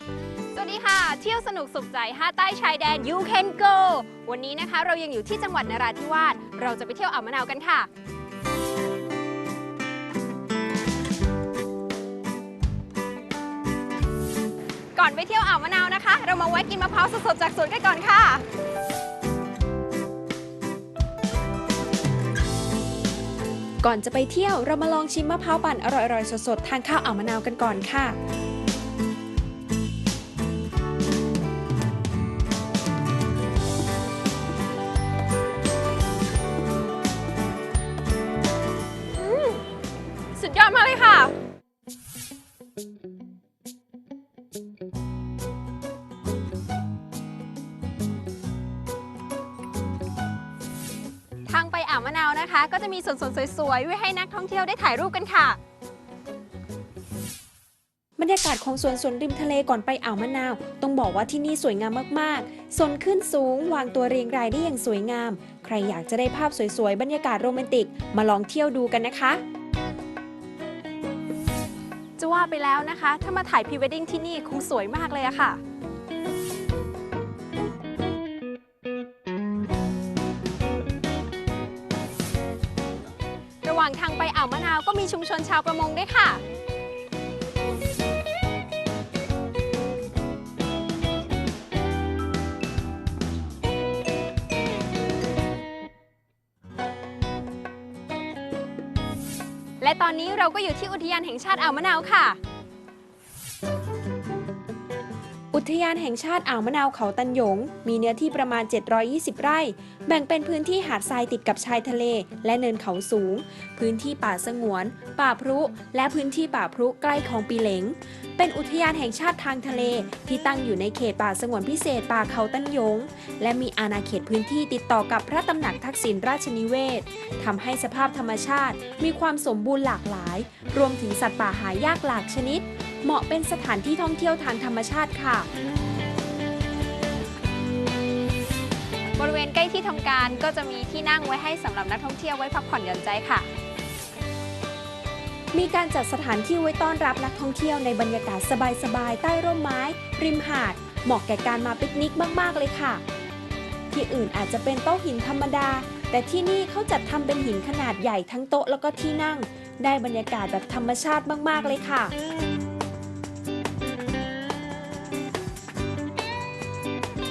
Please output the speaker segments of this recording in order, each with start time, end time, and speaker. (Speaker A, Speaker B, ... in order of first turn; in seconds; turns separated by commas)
Speaker A: 0.5-7.9, Speaker A: 14.9-18.4, Speaker B: 23.8-28.2, Speaker A: 39.1-39.6, Speaker A: 40.4-41.3, Speaker A: 51.5-55.6, Speaker B: 58.2-69.4, Speaker A: 72.2-75.6, Speaker A: 83.6-86.4, Speaker A: 99.8-102.4, Speaker B: 105.5-135.5, Speaker A: 139.2-143.5, Speaker B: 145.5-153.0, Speaker B: 153.9-162.1